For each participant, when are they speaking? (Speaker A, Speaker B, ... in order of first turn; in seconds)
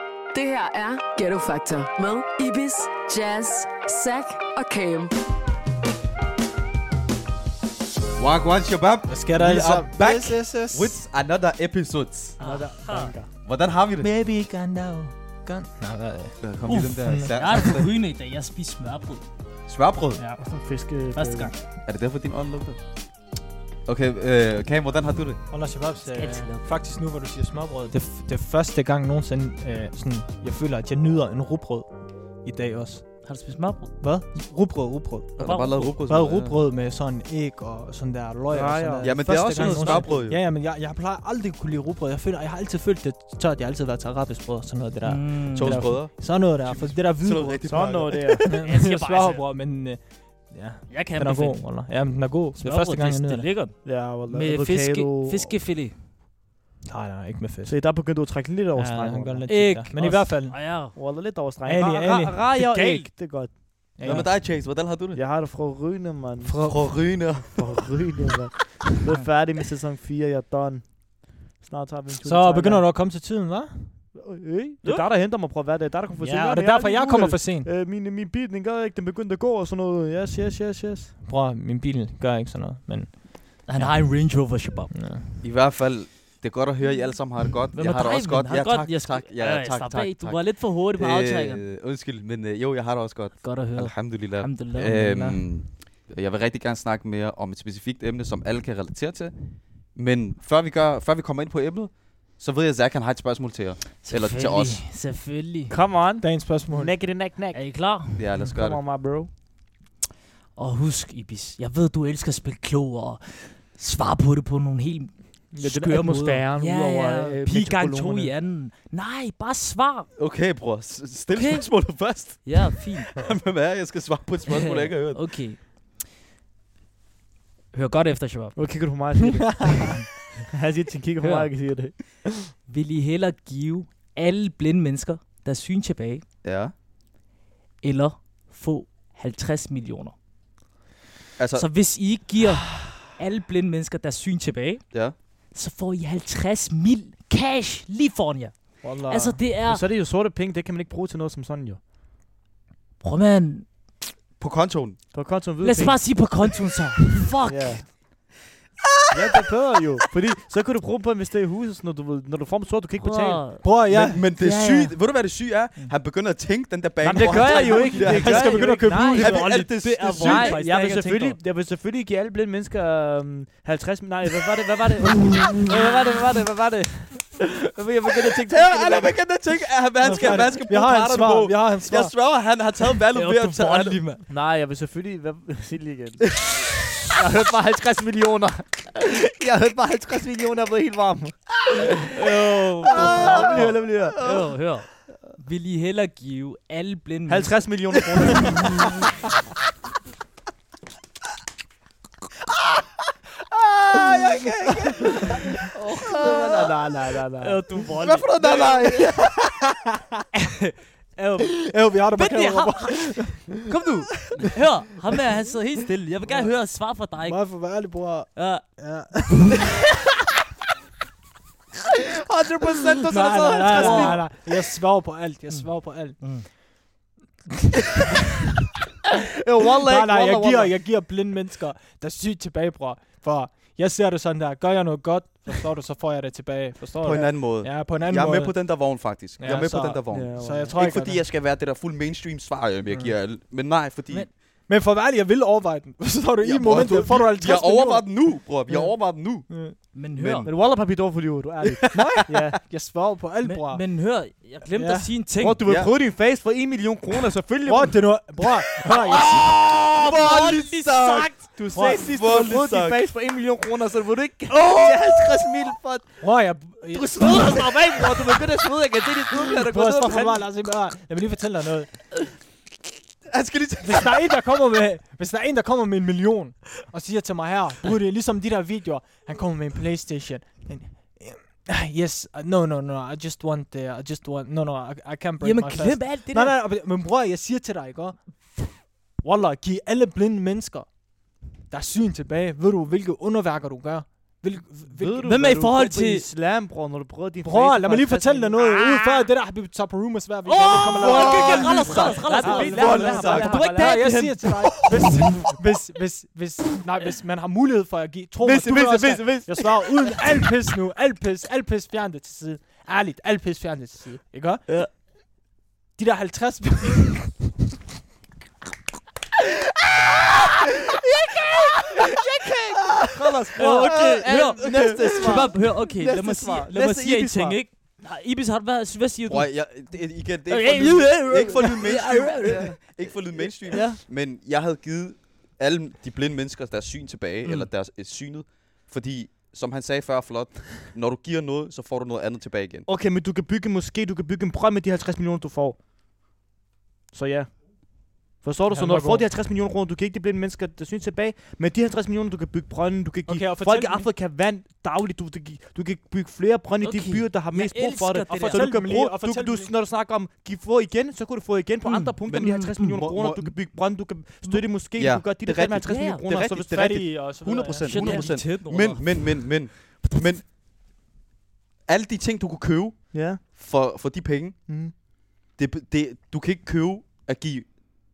Speaker A: 0.3-5.1
Speaker B: 8.2-12.4, 13.4-14.1, 16.4-17.9, 19.7-20.2, 21.9-22.8, 23.9-25.4, 35.4-36.6, 39.0-40.4, 45.5-48.6, 64.0-65.2, 66.6-67.9, 85.4-99.3, 99.9-104.8, 108.2-108.8, 120.2-125.4, 136.4-136.7, 141.4-141.7, 154.4-155.0, 163.9-170.6, 178.5-184.0, 192.9-194.5, 203.5-206.7, 207.9-209.4, 222.6-224.2, 237.0-244.3, 246.4-250.5, 255.7-255.9, 258.8-261.5, 262.0-263.0, 264.5-265.5, 273.3-274.4, 300.7-303.7, 308.4-310.5, 322.9-327.0, 329.3-342.9, 362.3-363.5, 365.0-370.5, 371.9-374.6, 375.6-377.9
Speaker C: 9.1-11.0, 14.0-16.4, 17.0-17.3, 25.5-33.2, 34.0-35.3, 36.1-53.5, 56.9-57.8, 58.8-60.6, 61.6-63.1, 64.0-64.3, 66.5-67.0, 72.2-74.0, 76.2-77.7, 81.2-83.9, 84.9-85.2, 106.2-106.9, 148.8-149.4, 163.6-164.2, 167.4-169.4, 180.0-182.1, 211.5-213.5, 217.2-219.8, 223.1-226.6, 229.8-241.2, 242.9-243.1, 244.7-248.1, 249.5-249.8, 251.8-253.9, 254.7-255.1, 257.7-259.5, 261.7-262.0, 266.2-267.8, 269.5-271.9, 273.8-288.6, 289.2-290.9, 291.7-295.4, 297.4-315.0, 316.0-317.3, 348.7-349.2, 353.3-354.1, 358.3-359.7, 366.7-368.3
Speaker D: 12.4-13.1, 16.7-19.2, 21.1-21.5, 26.1-26.7, 33.2-33.9, 35.4-36.0, 45.0-45.9, 48.6-49.5, 50.9-51.6, 52.6-53.8, 54.3-56.0, 59.5-61.0, 83.7-85.0, 87.7-91.6, 93.4-95.4, 104.0-105.7, 107.5-108.2, 110.6-120.1, 121.3-123.1, 124.5-125.7, 127.7-128.6, 131.2-131.5, 132.7-136.2, 137.8-140.1, 141.6-149.8, 153.0-153.8, 155.6-157.9, 163.0-163.7, 164.3-165.0, 167.6-167.8, 169.1-171.4, 183.1-184.2, 192.1-197.5, 207.4-208.7, 210.6-217.6, 218.3-218.6, 223.7-224.2, 225.5-226.5, 249.9-250.5, 253.4-255.6, 259.7-261.4, 285.4-286.6, 295.2-296.3, 300.5-304.6, 323.6-333.0, 333.7-334.0, 356.8-358.7, 361.9-363.0, 365.9-366.2, 367.9-369.6
Speaker E: 12.4-13.3, 20.4-21.5, 38.5-40.1, 47.6-48.6, 53.8-55.5, 57.6-59.5, 60.9-63.5, 64.1-64.5, 65.1-72.9, 74.1-81.1, 105.7-107.6, 108.4-109.3, 115.5-118.3, 128.6-129.9, 130.5-132.2, 149.6-151.8, 155.1-156.3, 157.5-157.8, 159.1-163.5, 167.0-169.4, 170.1-179.2, 184.3-194.2, 197.3-198.8, 205.9-207.6, 208.4-208.8, 222.6-224.3, 229.4-230.7, 240.1-240.8, 250.4-252.6, 255.4-258.0, 261.3-266.2, 266.9-270.5, 294.9-299.0, 301.3-304.2, 322.4-327.6, 333.7-334.0, 342.9-345.8, 347.1-366.9, 373.1-373.4, 374.7-374.9